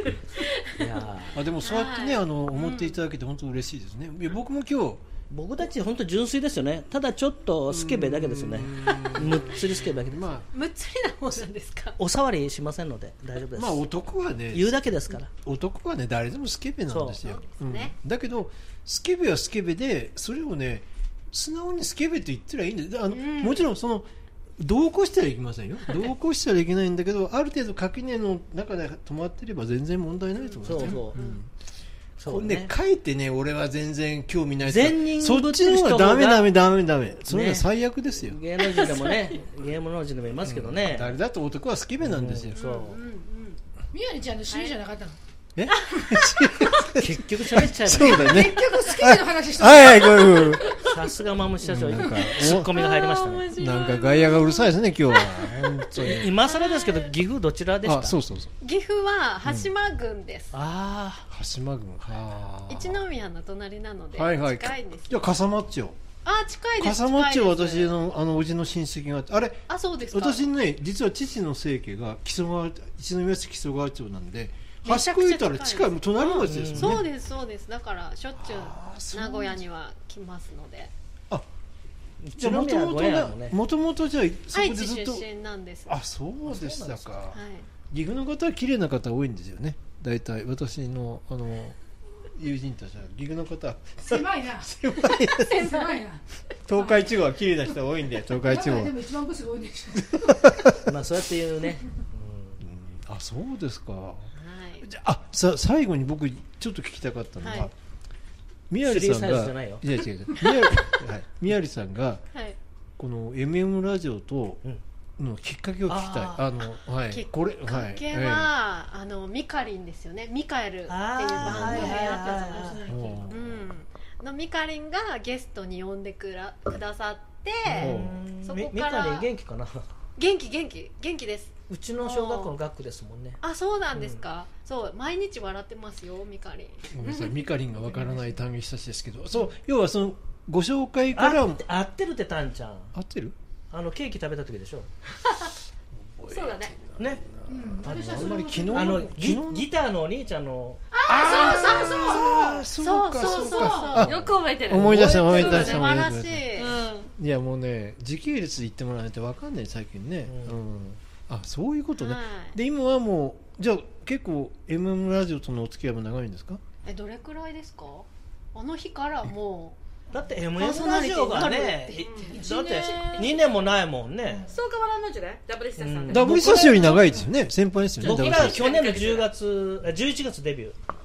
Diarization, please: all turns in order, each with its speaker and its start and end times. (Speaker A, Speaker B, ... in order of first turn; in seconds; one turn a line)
Speaker A: 0.1-0.9
Speaker B: 0.7-1.4
Speaker C: 1.3-5.0
Speaker A: 1.6-3.0
Speaker B: 5.3-10.3
Speaker C: 7.7-10.5
Speaker A: 10.5-12.0
Speaker B: 12.0-13.8
Speaker C: 13.6-31.5
Speaker B: 14.5-15.3
Speaker B: 16.9-17.2
Speaker A: 17.2-17.9
Speaker A: 23.1-23.7
Speaker A: 30.4-31.4
Speaker B: 30.6-31.2
Speaker B: 32.2-32.7
Speaker C: 32.2-38.4
Speaker B: 34.6-36.5
Speaker B: 37.3-41.1
Speaker A: 38.6-39.4
Speaker C: 40.4-42.6
Speaker B: 42.0-43.0
Speaker A: 42.5-43.6
Speaker D: 43.9-45.2
Speaker A: 44.5-44.8
Speaker C: 45.6-50.8
Speaker A: 45.7-46.9
Speaker B: 46.9-48.6
Speaker D: 48.1-50.9
Speaker B: 50.8-53.5
Speaker C: 51.6-52.8
Speaker A: 52.4-57.1
Speaker C: 53.5-56.4
Speaker B: 56.0-58.2
Speaker C: 57.8-58.5
Speaker A: 58.6-60.5
Speaker C: 59.5-59.7
Speaker B: 60.5-61.3
Speaker C: 61.3-63.1
Speaker A: 62.7-65.3
Speaker C: 64.1-66.0
Speaker A: 66.2-68.0
Speaker C: 66.8-77.1
Speaker A: 69.7-70.4
Speaker A: 74.8-80.9
Speaker B: 76.4-77.1
Speaker C: 78.4-79.7
Speaker B: 82.2-83.6
Speaker C: 82.4-85.2
Speaker A: 84.5-86.0
Speaker C: 85.9-87.4
Speaker B: 86.4-87.2
Speaker A: 87.3-87.7
Speaker C: 87.9-91.8
Speaker C: 92.3-95.7
Speaker D: 94.0-94.7
Speaker A: 95.3-96.0
Speaker D: 95.5-96.2
Speaker C: 96.7-99.0
Speaker D: 98.4-100.4
Speaker C: 100.0-100.8
Speaker B: 100.8-102.6
Speaker C: 102.6-107.7
Speaker A: 104.3-104.9
Speaker A: 107.4-107.7
Speaker C: 108.7-112.2
Speaker B: 108.8-109.9
Speaker C: 113.0-114.6
Speaker C: 115.2-118.5
Speaker B: 115.9-116.4
Speaker A: 117.1-129.3
Speaker B: 120.9-123.2
Speaker D: 121.5-123.2
Speaker C: 122.9-123.7
Speaker B: 127.7-129.9
Speaker C: 127.7-128.2
Speaker A: 130.2-132.6
Speaker B: 131.7-133.4
Speaker A: 133.4-137.5
Speaker B: 133.9-134.2
Speaker C: 136.9-141.7
Speaker B: 141.2-142.9
Speaker C: 142.9-143.4
Speaker B: 143.7-144.9
Speaker C: 145.9-149.7
Speaker E: 146.3-146.8
Speaker B: 147.0-147.2
Speaker D: 147.5-149.0
Speaker B: 147.9-150.8
Speaker D: 150.9-152.7
Speaker C: 151.1-166.6
Speaker A: 151.3-152.2
Speaker A: 152.8-157.1
Speaker D: 153.2-154.0
Speaker E: 154.0-157.0
Speaker B: 160.3-160.6
Speaker A: 162.0-162.6
Speaker A: 166.8-169.8
Speaker B: 170.1-174.5
Speaker A: 170.6-172.3
Speaker E: 172.0-173.3
Speaker D: 172.3-173.2
Speaker E: 174.5-177.1
Speaker B: 175.8-177.0
Speaker C: 176.1-178.6
Speaker E: 178.0-179.3
Speaker B: 178.0-180.8